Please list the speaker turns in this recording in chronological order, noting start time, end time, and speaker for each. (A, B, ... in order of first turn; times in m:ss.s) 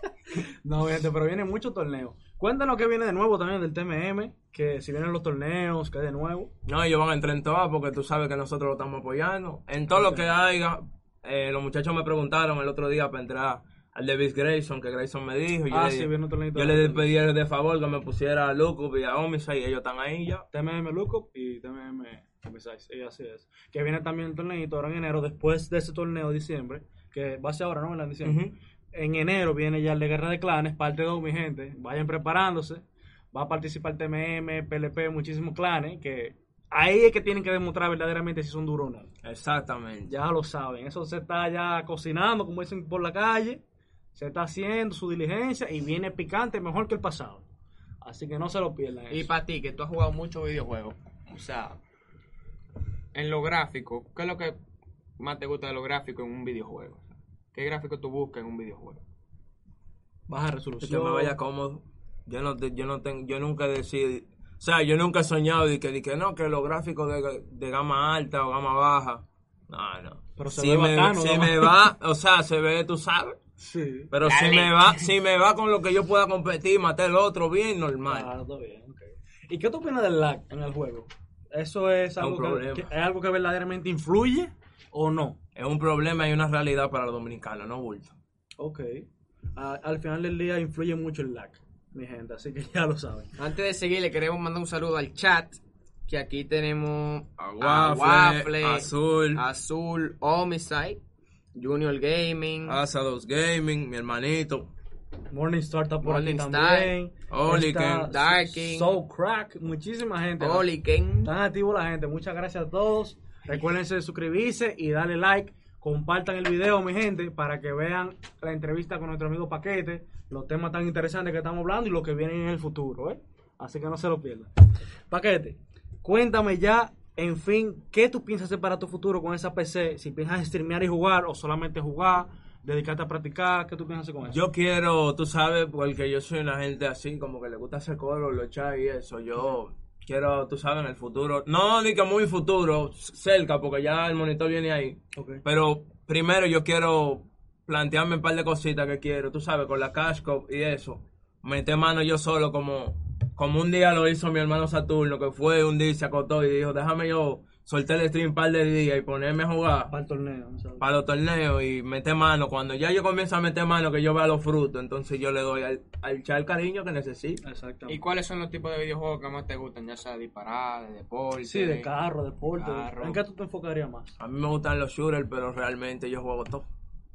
0:00.4-0:06.5 A
0:06.6-0:20.4 B
0:09.9-0:10.2 A
0:15.7-0:17.1 A
0:20.5-0:39.1 A
0:28.2-0:28.6 B
0:39.2-0:40.1 B
0:40.1-0:43.6 A
0:44.1-0:47.4 A
0:48.0-0:49.3 A
0:49.1-0:51.8 C
0:53.1-0:54.6 C
0:55.2-0:59.0 C
1:00.3-1:01.4 A
1:00.8-1:13.4 B
1:10.4-1:11.9 A
1:13.6-1:14.1 A
1:14.1-1:18.3 B
1:14.2-1:15.1 C
1:18.1-1:25.4 A
1:22.2-1:22.9 B
1:25.6-1:28.2 B
1:28.6-1:33.3 A
1:33.4-1:41.0 C
1:37.4-1:39.4 B
1:41.6-1:42.8 C
1:42.6-1:44.7 B
1:45.3-1:50.7 A
1:46.0-1:46.9 C
1:47.3-1:48.1 B
1:48.0-1:48.9 C
1:50.4-1:51.3 C
1:51.2-2:04.5 A
2:05.1-2:14.4 A
2:14.3-2:39.9 B
2:25.1-2:25.4 A
2:39.9-2:40.8 A
2:40.8-2:47.4 B
2:47.4-2:48.0 A
2:47.9-2:51.9 C
2:51.4-2:54.1 A
2:52.5-2:53.2 C
2:54.2-2:56.7 B